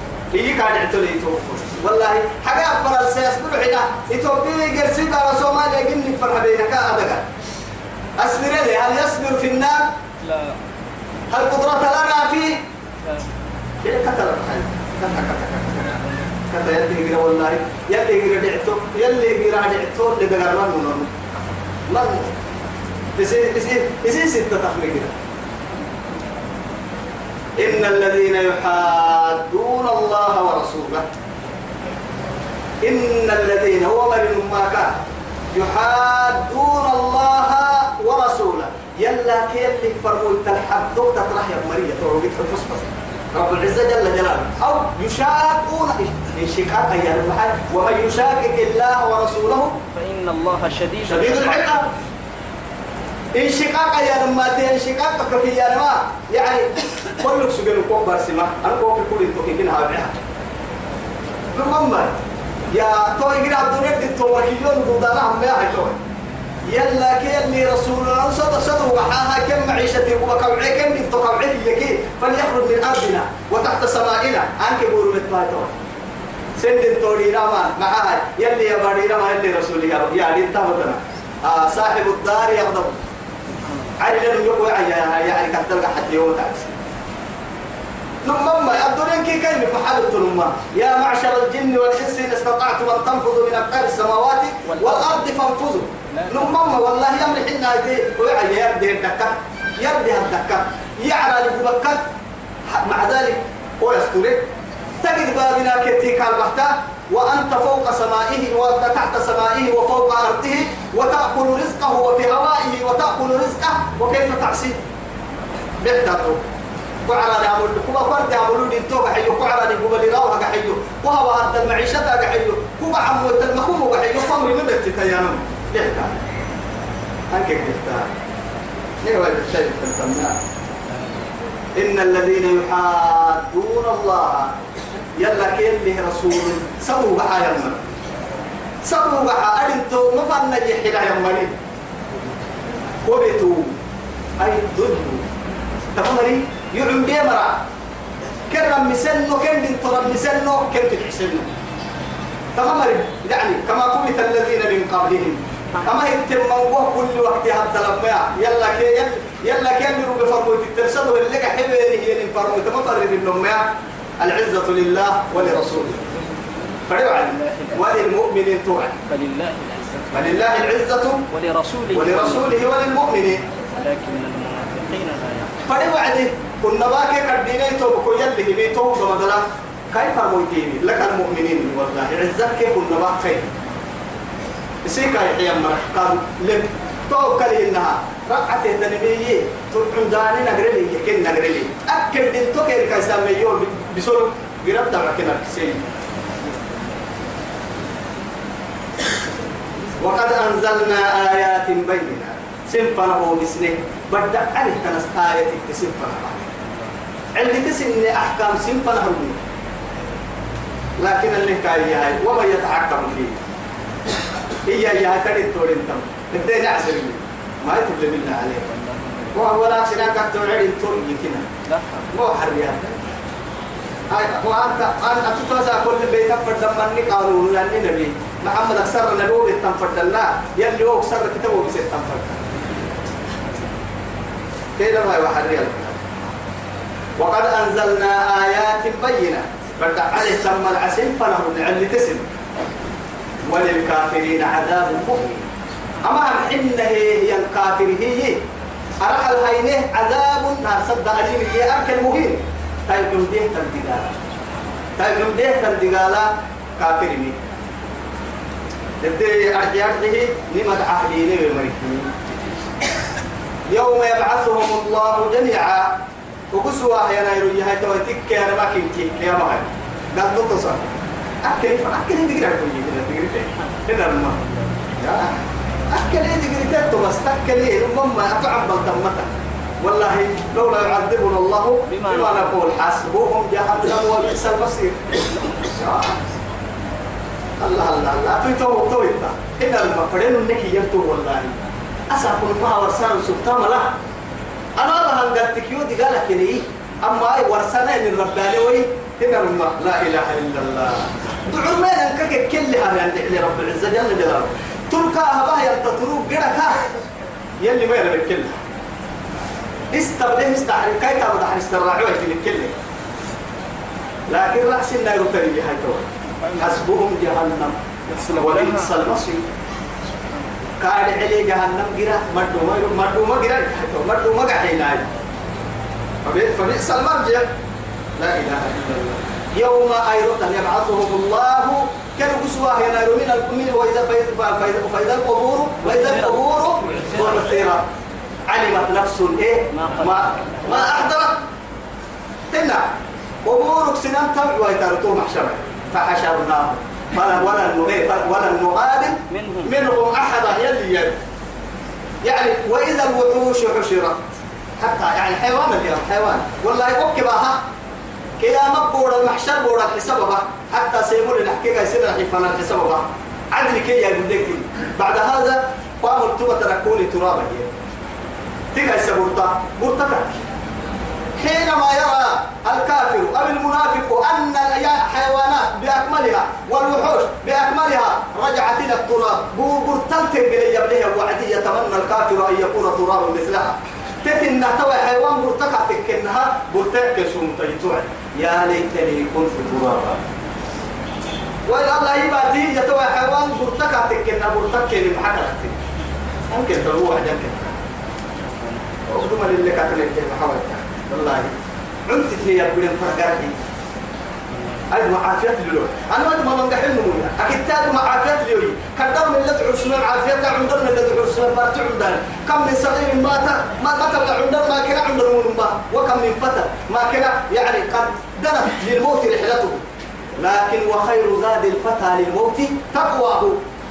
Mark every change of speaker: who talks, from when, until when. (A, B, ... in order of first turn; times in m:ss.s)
0:00.3-0:07.3 A
0:08.2-0:09.9 A
0:10.2-0:10.6 B
0:11.3-0:12.6 A
0:13.8-0:21.1 A
0:15.9-0:16.2 B
0:21.9-0:22.3 A
0:23.2-0:25.1 A
0:27.6-0:31.0 A
0:32.8-0:35.0 A
0:35.5-0:49.8 A
0:49.9-0:51.9 B
0:51.0-0:51.9 A
0:53.3-1:00.1 A
1:01.5-1:02.2 A
1:02.7-1:06.0 A
1:06.7-1:15.8 A
1:16.6-1:23.1 A
1:23.6-1:23.9 B
1:24.0-1:26.8 A
1:28.2-1:42.0 A
1:34.7-1:35.2 B
1:36.1-1:36.5 B
1:42.7-1:44.5 A
1:45.0-1:54.8 A
1:55.8-1:56.4 A
1:57.0-2:06.2 A
2:07.3-2:08.1 A
2:09.0-2:10.4 A
2:11.8-2:14.6 A
2:15.2-2:17.8 A
2:18.8-2:21.5 A
2:23.0-2:23.8 A
2:24.4-2:25.2 A
2:25.9-2:27.6 A
2:28.5-2:31.5 A
2:32.6-2:43.6 A
2:44.2-2:46.1 A
2:46.9-2:49.0 A
2:47.2-2:47.9 B
2:49.1-2:50.3 B
2:50.1-2:51.2 A
2:51.3-2:52.7 B
2:51.9-2:53.4 A
2:53.6-2:55.6 B
2:55.6-3:03.5 A
3:04.8-3:15.8 A
3:20.0-3:26.4 A
3:27.3-3:29.4 A
3:31.0-3:33.4 A
3:34.6-3:38.7 A
3:38.7-3:39.4 B
3:39.3-3:41.5 A
3:41.6-3:42.1 B
3:42.1-3:43.0 A
3:44.1-3:52.4 A
3:54.8-3:56.1 A
3:57.2-4:02.3 A
4:03.4-4:05.5 A
4:06.0-4:08.4 A
4:09.0-4:14.2 A
4:15.0-4:17.4 A
4:19.0-4:22.3 A
4:23.7-4:26.0 A
4:26.5-4:34.4 A
4:35.0-4:46.2 A
4:41.9-4:42.5 B
4:47.6-4:54.0 A
4:54.8-5:06.9 A
5:07.6-5:08.6 A
5:09.9-5:12.8 A
5:14.3-5:19.4 A
5:18.3-5:18.9 B
5:20.8-5:25.0 A
5:26.2-5:27.5 A
5:28.2-5:37.9 A
5:35.8-5:37.0 B
5:38.5-5:41.4 A
5:39.7-5:41.0 B
5:42.5-5:42.8 A
5:43.4-5:51.2 A
5:49.3-5:49.7 B
5:52.2-5:57.6 A
5:58.4-6:07.7 A
6:08.7-6:10.4 A
6:11.4-6:30.2 A
6:31.7-6:35.8 A
6:36.5-6:37.8 A
6:39.1-6:43.6 A
6:44.9-6:59.8 A
7:00.4-7:03.6 A